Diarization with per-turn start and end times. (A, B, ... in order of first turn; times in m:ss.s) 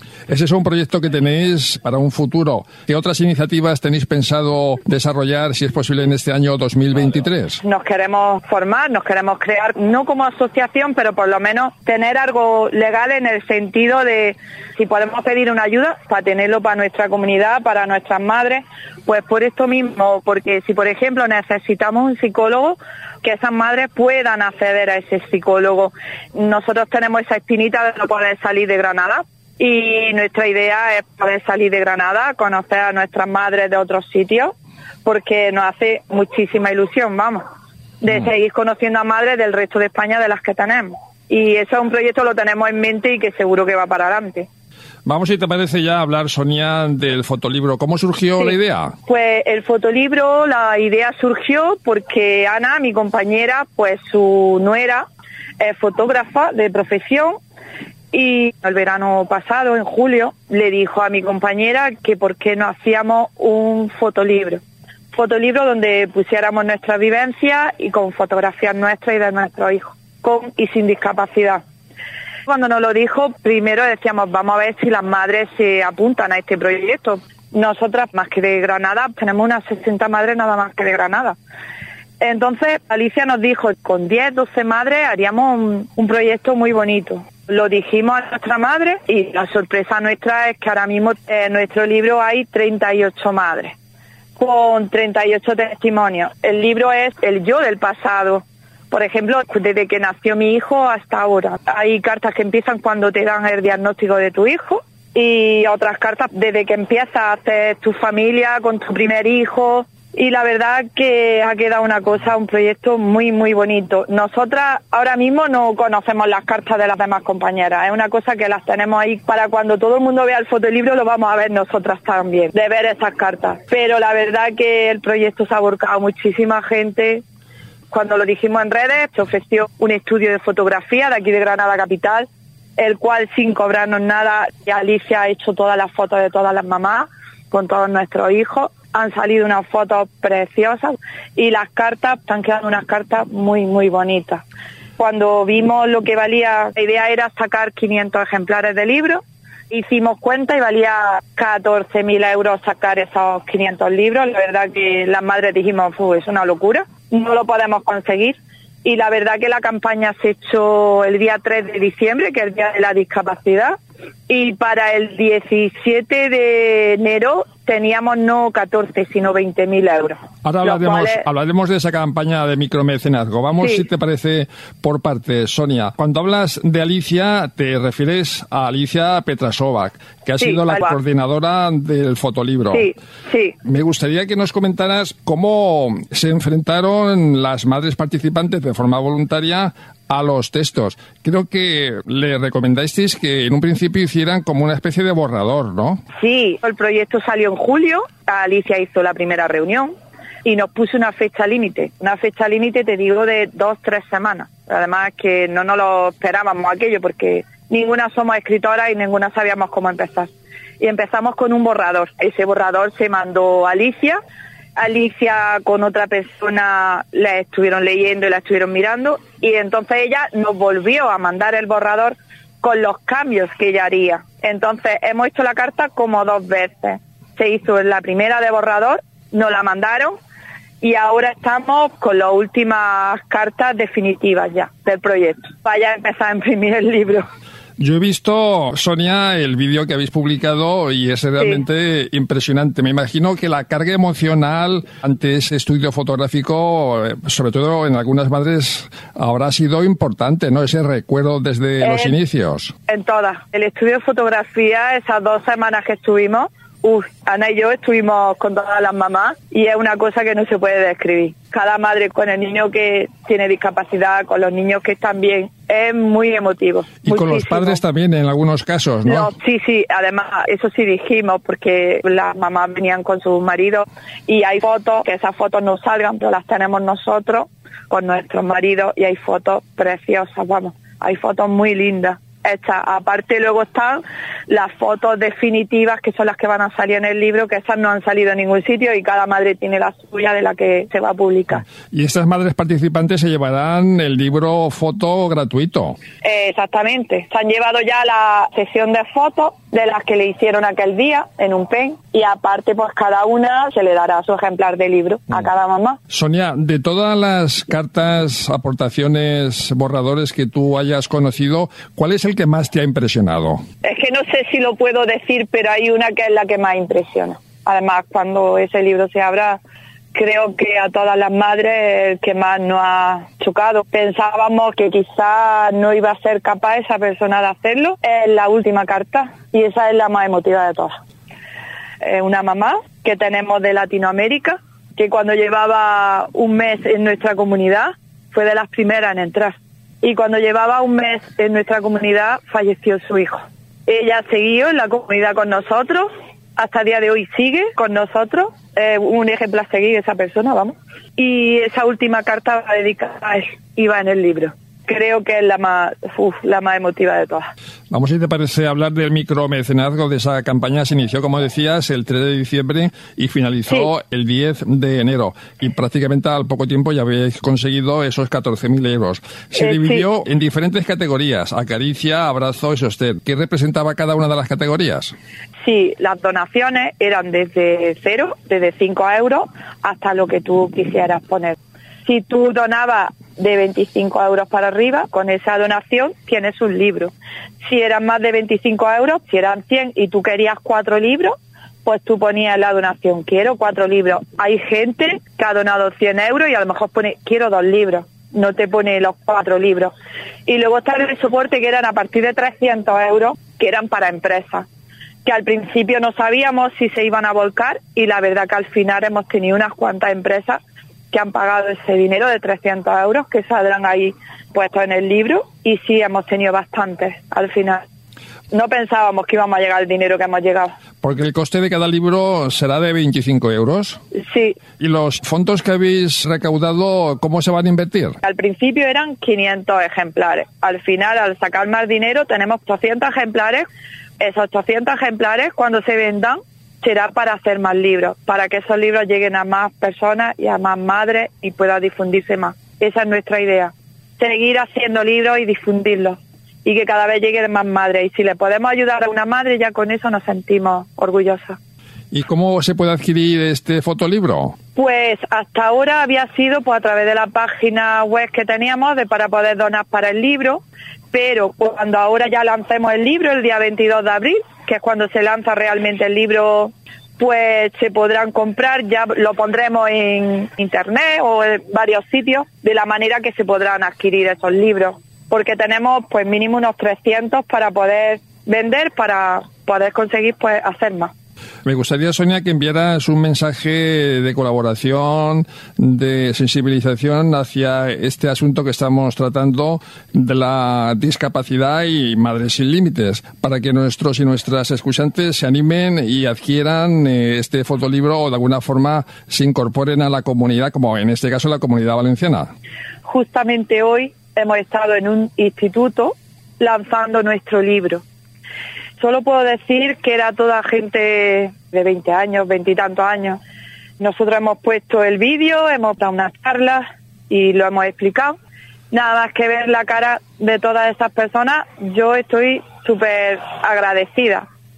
0:00.3-0:07.6 A
0:07.6-0:37.5 B
0:38.0-0:44.5 B
0:45.0-0:49.0 A
0:48.4-0:55.0 B
0:55.6-0:57.4 B
0:58.1-1:04.6 B
1:05.1-1:11.6 B
1:12.5-1:21.4 B
1:22.2-1:33.8 B
1:34.4-2:07.2 B
2:07.9-2:24.4 B
2:25.0-2:43.8 B
2:44.3-2:51.2 B
2:50.4-3:02.9 A
3:00.4-3:01.0 B
3:02.7-3:03.5 B
3:03.6-3:16.0 A
3:16.2-3:19.9 B
3:20.4-3:34.2 B
3:34.8-3:50.2 B
3:50.8-3:57.3 B
3:57.8-4:12.7 A
4:11.8-4:12.1 B
4:12.9-4:27.8 B
4:27.0-4:29.3 A
4:29.0-4:51.6 B
4:51.9-4:56.0 A
4:56.2-5:06.0 B
5:06.1-5:13.6 A
5:13.8-5:19.6 B
5:20.1-5:31.0 B
5:32.0-5:57.5 B
5:57.9-6:15.1 A
6:09.6-6:10.0 B
6:15.6-6:27.1 B
6:27.6-6:39.9 B
6:40.5-6:44.7 B
6:45.2-6:50.6 B
6:51.1-6:57.8 B
6:58.5-7:00.7 B
7:01.0-7:04.0 A
7:04.1-7:04.6 B
7:04.8-7:08.2 A
7:08.2-7:13.7 B
7:14.2-7:31.6 B
7:32.1-7:34.6 A
7:34.8-8:01.1 B
8:01.6-8:22.5 A
8:23.0-8:28.0 B
8:29.0-8:33.4 B
8:34.0-8:38.4 B
8:38.9-8:44.5 B